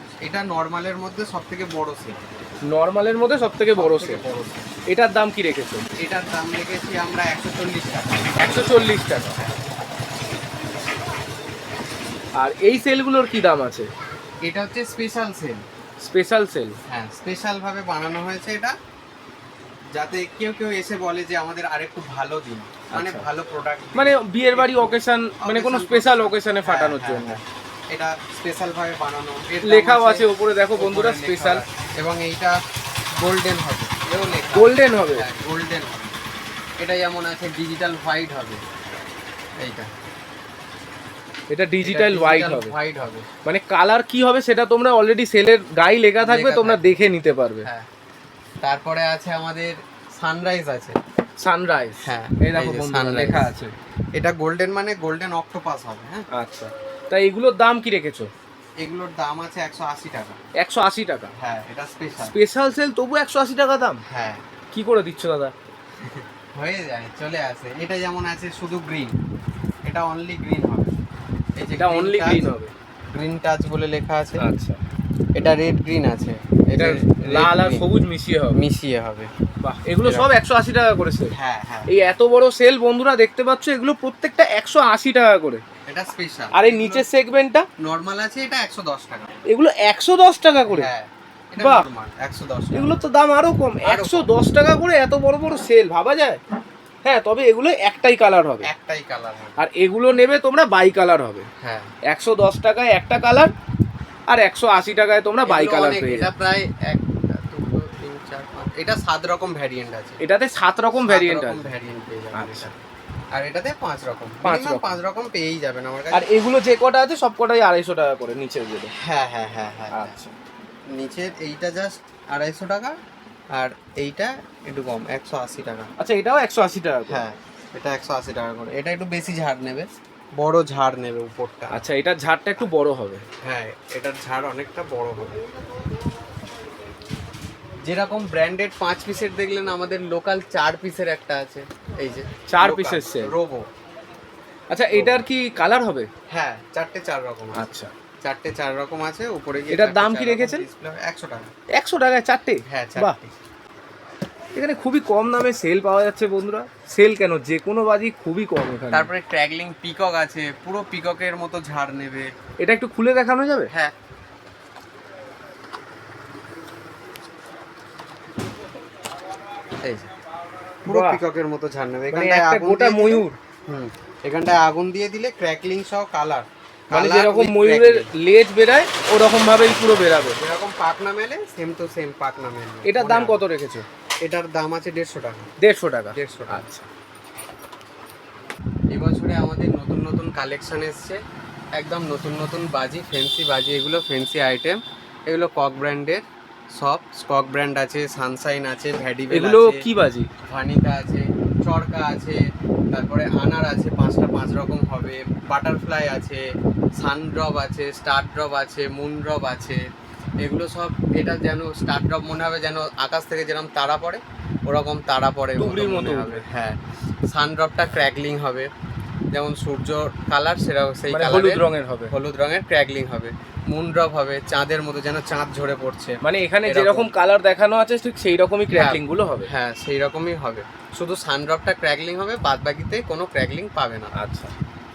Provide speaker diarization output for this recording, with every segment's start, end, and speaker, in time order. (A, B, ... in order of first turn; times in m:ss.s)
0:00.2-0:02.2 A
0:02.7-0:04.2 B
0:03.8-0:04.7 A
0:04.9-0:05.9 B
0:06.0-0:08.7 A
0:08.4-0:09.4 B
0:12.4-0:13.9 B
0:14.4-0:15.6 A
0:16.0-0:16.8 B
0:16.9-0:18.8 A
0:19.9-0:32.6 A
0:22.9-0:23.3 B
0:23.9-0:27.4 B
0:29.6-0:31.6 B
0:33.1-0:36.2 A
0:34.5-0:35.2 B
0:36.8-0:38.6 A
0:39.6-0:39.9 A
0:41.5-0:42.7 B
0:41.8-0:43.3 A
0:43.4-0:47.7 B
0:46.2-0:46.9 A
0:48.6-0:51.0 A
0:51.4-0:53.7 B
0:52.0-0:53.5 A
0:54.2-0:56.2 A
0:56.3-0:58.3 B
0:58.8-1:00.4 A
1:00.6-1:01.3 B
1:01.4-1:02.3 A
1:02.2-1:04.0 B
1:04.1-1:04.4 A
1:04.7-1:05.5 B
1:06.0-1:09.2 A
1:09.8-1:10.9 A
1:11.6-1:12.5 A
1:11.8-1:12.7 B
1:13.1-1:14.4 A
1:14.4-1:14.8 B
1:15.4-1:17.9 A
1:16.8-1:18.6 B
1:18.5-1:19.3 A
1:19.6-1:21.3 B
1:20.0-1:20.3 A
1:21.3-1:21.9 A
1:21.9-1:25.6 B
1:25.9-1:27.0 A
1:26.5-1:27.7 B
1:27.8-1:29.3 A
1:29.5-1:30.9 B
1:30.7-1:33.0 A
1:31.6-1:31.8 B
1:32.7-1:36.4 B
1:33.8-1:34.3 A
1:37.0-1:38.7 B
1:38.6-1:39.6 A
1:39.6-1:41.5 B
1:41.6-1:41.9 A
1:42.1-1:43.5 B
1:44.3-1:46.3 B
1:45.4-1:50.2 A
1:50.2-1:51.7 B
1:50.9-1:52.8 A
1:52.3-1:52.6 B
1:53.3-1:56.3 A
1:54.4-1:54.9 B
1:56.1-1:58.9 B
1:59.0-2:00.2 A
1:59.9-2:00.3 B
2:00.9-2:03.0 A
2:03.5-2:05.9 A
2:06.0-2:07.2 B
2:07.1-2:11.8 A
2:11.7-2:13.2 B
2:13.4-2:15.4 A
2:17.8-2:23.7 A
2:22.5-2:23.3 B
2:24.7-2:26.1 B
2:24.9-2:25.2 A
2:26.3-2:27.7 A
2:27.5-2:27.9 B
2:28.2-2:31.5 A
2:29.7-2:30.6 B
2:31.8-2:33.2 B
2:32.7-2:33.3 A
2:34.5-2:39.1 B
2:38.9-2:42.3 A
2:42.6-2:43.7 B
2:43.7-2:43.9 A
2:49.8-2:50.1 A
2:50.9-2:51.2 B
2:50.9-2:58.1 A
2:52.1-2:53.4 B
2:56.9-3:00.4 B
2:59.9-3:03.4 A
3:02.8-3:03.9 B
3:04.2-3:05.5 A
3:05.6-3:06.9 B
3:06.1-3:06.7 A
3:08.9-3:11.2 A
3:11.8-3:19.8 A
3:19.3-3:20.3 B
3:20.4-3:22.4 A
3:22.9-3:26.4 A
3:27.0-3:29.8 A
3:30.4-3:38.7 A
3:35.6-3:36.4 B
3:39.3-3:47.1 A
3:41.1-3:42.1 B
3:46.2-3:49.5 B
3:48.7-3:54.1 A
3:54.1-3:54.5 B